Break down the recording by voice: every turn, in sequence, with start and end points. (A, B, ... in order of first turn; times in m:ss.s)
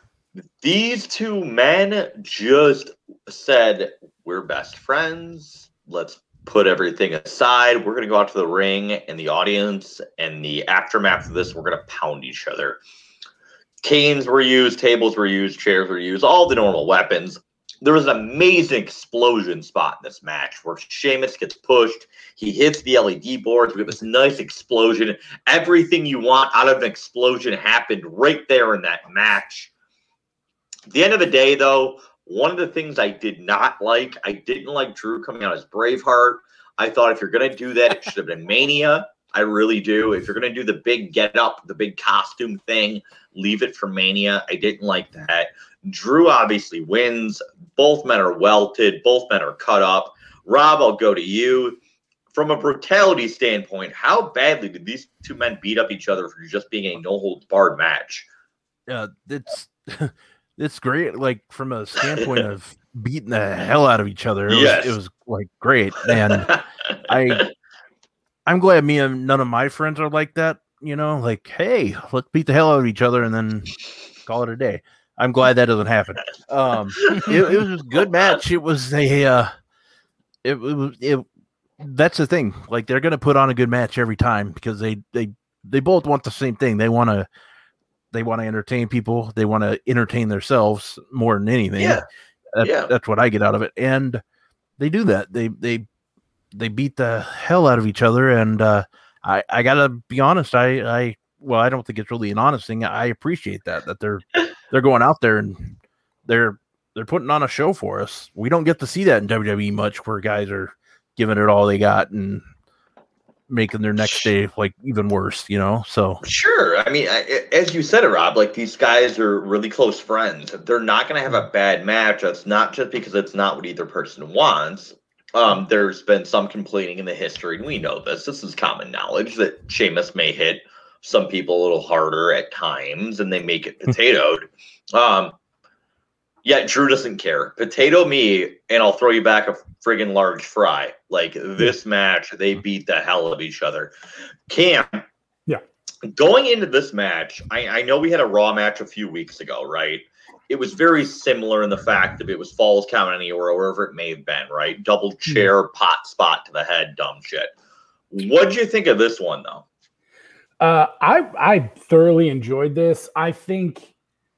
0:00.6-0:12.8 A
0:13.8-0:29.7 A
0:30.9-0:51.8 A
0:52.3-0:58.3 A
0:58.9-1:07.5 B
1:04.5-1:05.0 A
1:06.2-1:06.6 A
1:08.5-1:13.7 B
1:14.2-1:19.5 B
1:17.0-1:17.6 A
1:20.4-1:21.3 B
1:21.8-1:27.3 B
1:28.1-1:32.0 B
1:31.8-1:32.0 A
1:32.6-1:34.2 B
1:32.6-1:32.9 A
1:34.8-1:35.8 B
1:36.5-1:52.4 B
1:53.5-1:56.2 B
1:54.0-1:54.3 A
1:56.2-2:15.4 A
2:16.4-2:23.9 A
2:24.5-2:25.0 A
2:26.1-2:37.5 A
2:38.1-2:39.6 A
2:40.6-2:43.9 C